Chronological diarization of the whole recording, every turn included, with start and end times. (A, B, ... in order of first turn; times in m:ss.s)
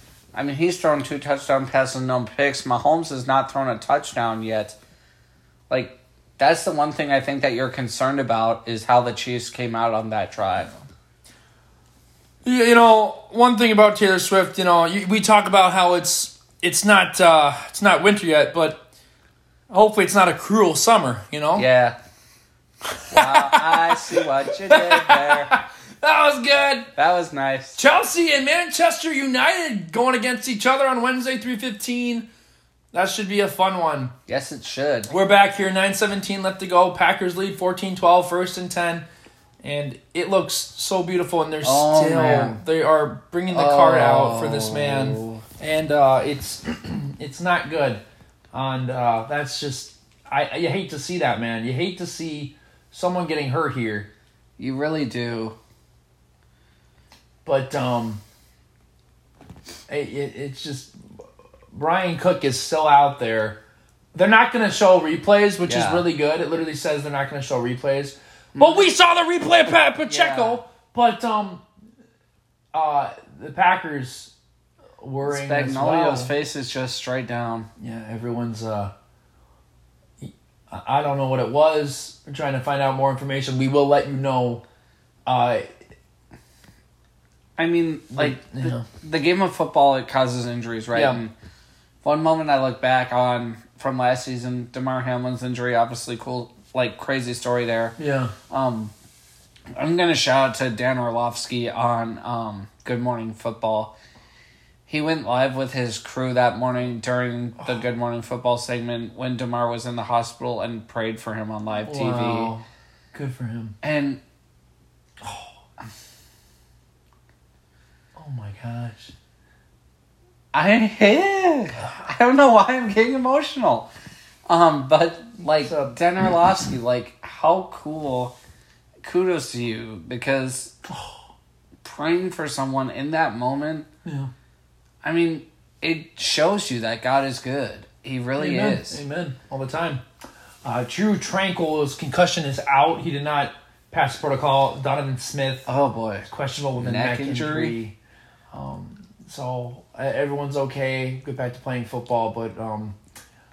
0:00.3-0:04.8 A
0:05.7-0:10.8 A
0:12.4-0:18.8 B
0:19.7-0:21.6 B
0:21.6-0:22.0 A
0:22.9-0:26.9 B
0:23.1-0:25.6 A
0:27.0-0:27.8 A
0:27.8-0:32.3 B
0:32.9-0:34.1 B
0:34.3-0:35.1 A
0:35.1-0:39.0 B
0:39.6-0:48.0 B
0:41.6-0:42.6 A
0:43.5-0:45.4 A
0:48.5-0:54.1 B
0:54.6-0:55.6 A
0:57.4-0:58.2 B
0:59.9-1:00.9 B
1:01.7-1:03.6 B
1:04.2-1:11.6 B
1:05.6-1:06.1 A
1:08.5-1:08.9 A
1:10.0-1:10.6 A
1:12.7-1:14.3 B
1:15.0-1:16.3 B
1:15.2-1:17.7 A
1:17.8-1:18.9 B
1:20.2-1:24.6 B
1:25.3-1:25.7 B
1:27.6-1:31.3 A
1:28.1-1:28.9 B
1:30.9-1:31.2 B
1:32.0-1:38.0 A
1:38.0-1:38.3 B
1:38.5-1:38.9 A
1:39.8-1:43.9 A
1:44.9-1:52.5 A
1:51.8-1:53.8 B
1:53.8-1:54.2 A
1:55.2-1:55.5 B
1:58.2-1:59.1 B
2:00.5-2:03.9 A
2:04.5-2:08.4 A
2:05.6-2:06.0 B
2:09.0-2:10.8 A
2:11.8-2:13.9 A
2:14.0-2:14.3 B
2:15.0-2:19.0 A
2:18.4-2:20.0 B
2:20.6-2:25.7 B
2:25.7-2:27.8 A
2:26.3-2:28.0 B
2:28.5-2:33.0 B